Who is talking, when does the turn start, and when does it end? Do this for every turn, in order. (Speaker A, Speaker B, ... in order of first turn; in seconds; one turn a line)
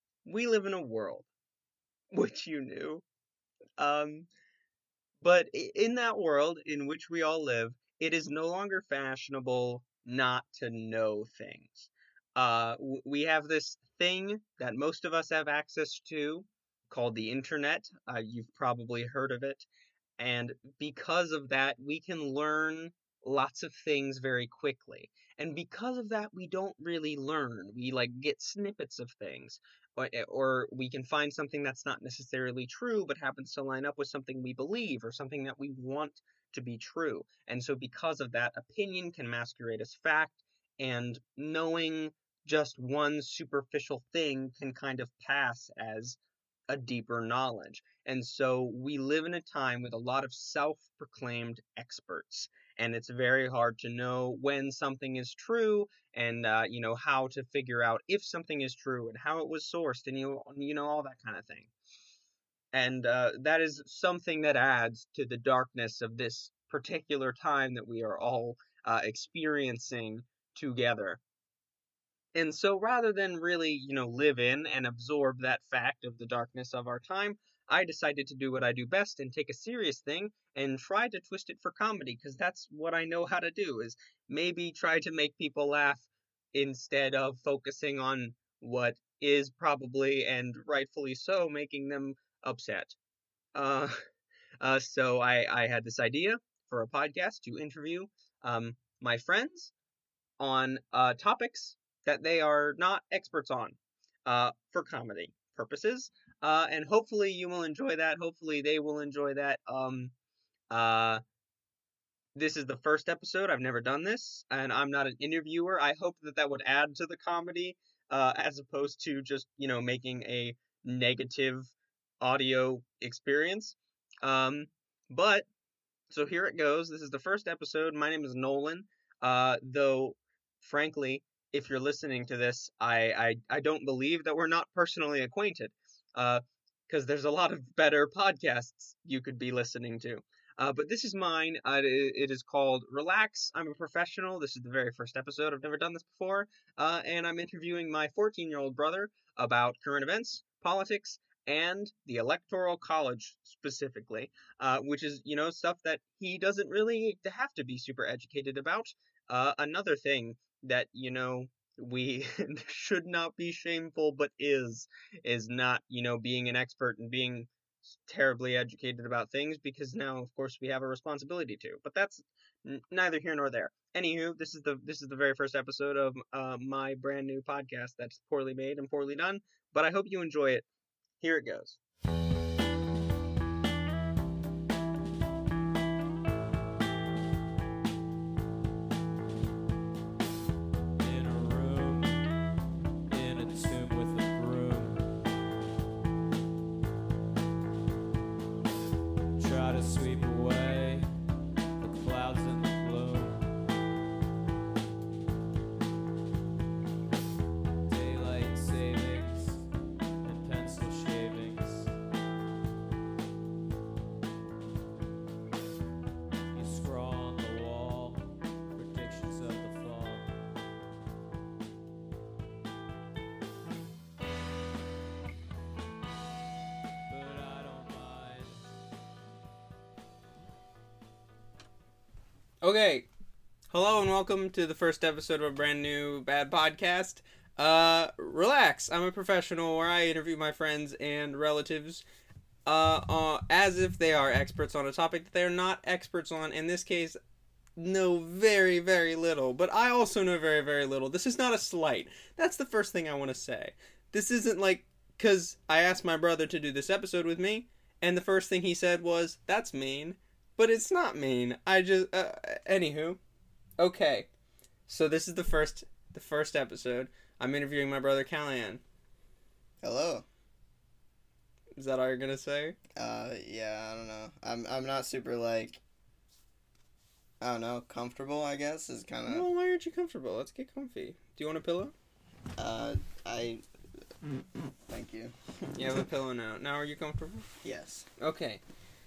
Speaker A: 0.2-1.3
Speaker A: 2.1-3.0
Speaker A: 3.8-4.3
Speaker A: 5.2-19.7
Speaker A: 20.2-46.2
Speaker A: 46.7-61.7
Speaker A: 62.7-71.2
Speaker A: 72.3-93.0
Speaker A: 93.5-94.0
Speaker A: 94.6-99.7
Speaker A: 100.4-110.1
Speaker A: 110.7-111.2
Speaker A: 112.3-125.5
Speaker A: 126.1-180.7
Speaker A: 181.2-181.8
Speaker B: 191.0-192.2
Speaker B: 193.1-195.1
Speaker B: 199.4-201.1
Speaker B: 201.8-203.4
Speaker B: 207.9-209.7
Speaker B: 210.2-211.9
Speaker B: 216.5-220.3
Speaker B: 227.1-228.7
Speaker A: 232.6-233.1
Speaker A: 233.7-242.0
Speaker A: 242.7-247.2
Speaker A: 247.8-263.2
Speaker A: 263.8-264.3
Speaker A: 264.9-268.8
Speaker C: 269.8-270.2
Speaker A: 271.8-272.8
Speaker C: 273.0-275.8
Speaker C: 277.4-279.5
Speaker A: 279.3-281.9
Speaker C: 282.6-283.6
Speaker C: 284.9-285.3
Speaker A: 285.8-287.5
Speaker C: 287.6-288.1
Speaker A: 288.2-288.6